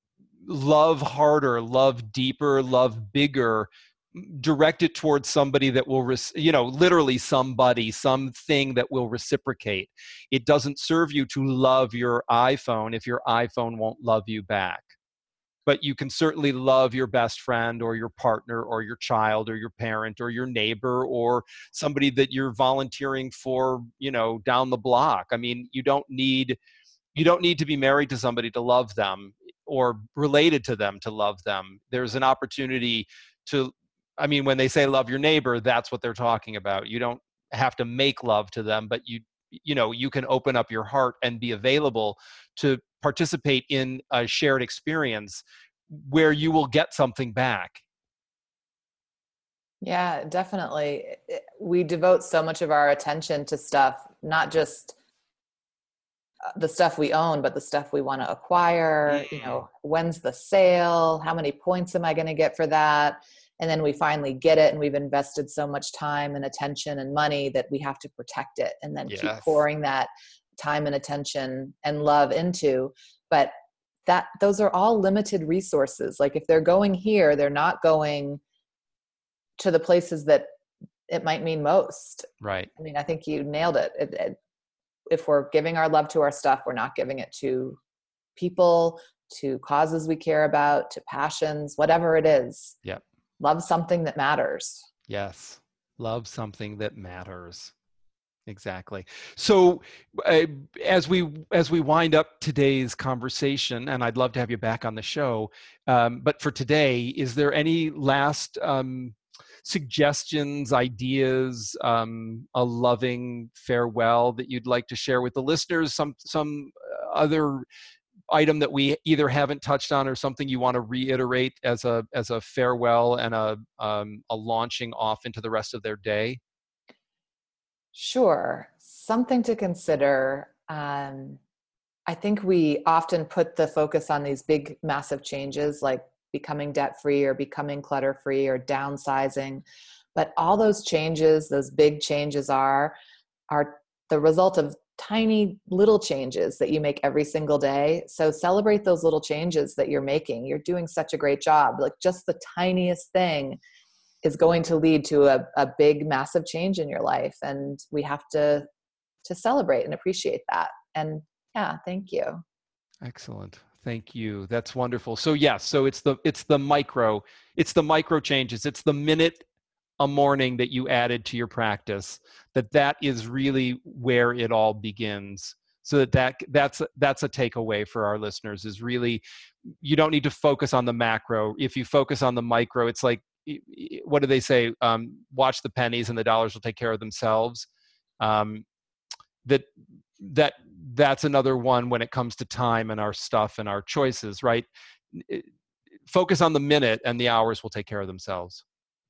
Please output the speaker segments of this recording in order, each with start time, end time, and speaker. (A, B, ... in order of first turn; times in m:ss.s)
0:00.4-0:14.9 A
0:15.7-0:26.6 A
0:27.1-0:47.8 A
0:49.8-0:55.0 B
0:56.6-1:13.5 B
0:59.1-0:59.6 A
1:09.1-1:09.6 A
1:14.1-1:18.4 B
1:19.6-1:20.5 B
1:21.1-1:24.4 B
1:22.4-1:22.7 A
1:25.1-1:27.8 B
1:28.4-1:32.8 B
1:33.4-1:34.9 B
1:35.1-1:37.7 A
1:38.5-1:57.7 A
1:58.3-2:06.4 A
2:08.0-2:11.4 B
2:12.1-2:19.6 B
2:20.2-2:23.0 B
2:23.5-2:33.6 B
2:34.2-2:38.7 B
2:39.2-2:42.4 B
2:43.0-2:49.4 A
2:50.0-2:59.2 A
2:59.8-3:07.7 A
3:08.2-3:08.7 A
3:10.2-3:15.5 A
3:16.1-3:18.6 A